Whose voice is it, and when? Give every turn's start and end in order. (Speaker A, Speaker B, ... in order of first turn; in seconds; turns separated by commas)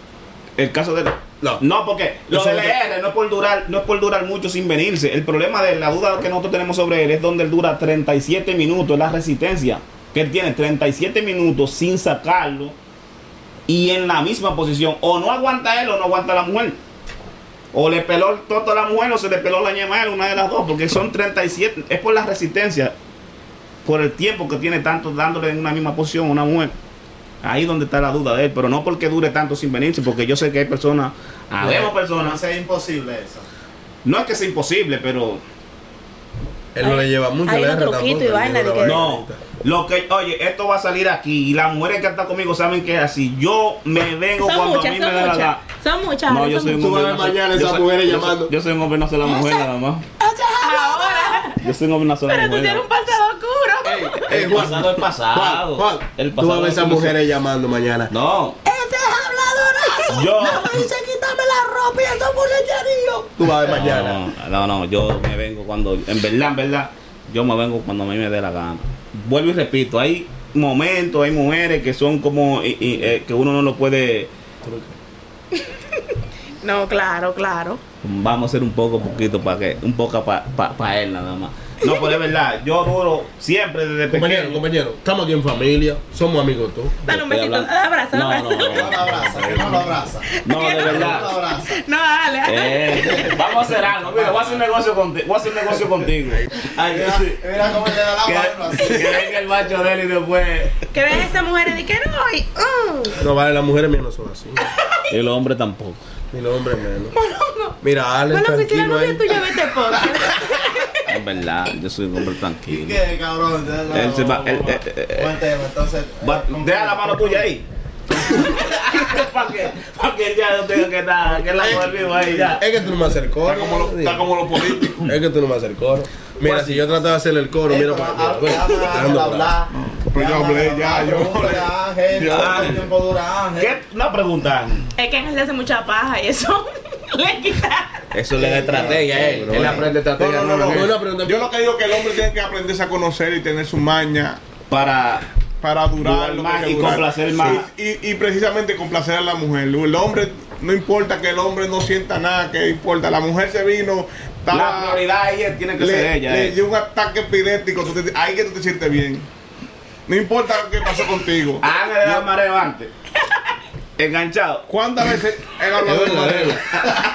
Speaker A: 0.6-12.7, Speaker B: 2.3-2.8, Speaker A: 13.7-16.8, Speaker A: 17.7-22.9, Speaker A: 23.8-26.7, Speaker A: 27.4-32.4, Speaker C: 31.6-33.5, Speaker A: 34.0-35.4, Speaker B: 36.7-39.4, Speaker D: 36.8-39.0, Speaker A: 38.8-45.6, Speaker D: 44.4-46.8, Speaker A: 46.3-50.0, Speaker B: 46.7-48.5, Speaker D: 49.2-49.6, Speaker D: 50.2-51.6, Speaker A: 51.5-52.8, Speaker D: 52.3-54.3, Speaker B: 53.8-58.1, Speaker A: 54.3-57.2, Speaker A: 58.1-58.6, Speaker D: 58.6-63.3, Speaker A: 60.1-60.8, Speaker B: 63.4-64.2, Speaker A: 63.7-74.3, Speaker B: 74.6-74.9, Speaker D: 75.5-77.8, Speaker A: 78.0-84.6, Speaker B: 84.1-87.0, Speaker D: 87.0-88.8, Speaker A: 87.1-89.1, Speaker C: 88.6-91.8, Speaker B: 89.0-90.0, Speaker D: 90.3-93.4, Speaker A: 90.4-91.3, Speaker A: 92.4-97.4, Speaker C: 94.0-94.6, Speaker C: 96.8-99.2, Speaker A: 98.2-100.7, Speaker D: 100.9-103.2, Speaker B: 103.2-104.7, Speaker D: 104.6-105.0, Speaker A: 105.1-106.0, Speaker B: 106.3-107.2, Speaker D: 107.1-107.8, Speaker B: 107.8-109.3, Speaker D: 108.3-111.1, Speaker A: 111.0-113.0, Speaker C: 112.7-117.5, Speaker A: 113.9-115.4, Speaker A: 116.2-117.6, Speaker A: 118.4-122.7, Speaker B: 121.6-124.3, Speaker E: 123.4-125.1, Speaker B: 125.0-129.6, Speaker C: 127.6-133.7, Speaker E: 129.7-132.9, Speaker A: 132.3-132.8, Speaker A: 133.6-134.8, Speaker D: 135.0-138.1, Speaker A: 138.1-140.9, Speaker C: 138.3-139.9, Speaker B: 138.7-139.9, Speaker E: 140.1-144.4, Speaker B: 140.7-141.5, Speaker A: 144.7-145.2, Speaker E: 145.6-155.0, Speaker A: 146.0-147.6, Speaker A: 154.5-156.6, Speaker E: 155.8-159.3, Speaker E: 160.1-162.2, Speaker A: 161.6-162.9, Speaker A: 164.0-164.7, Speaker E: 164.7-167.0, Speaker B: 165.8-166.6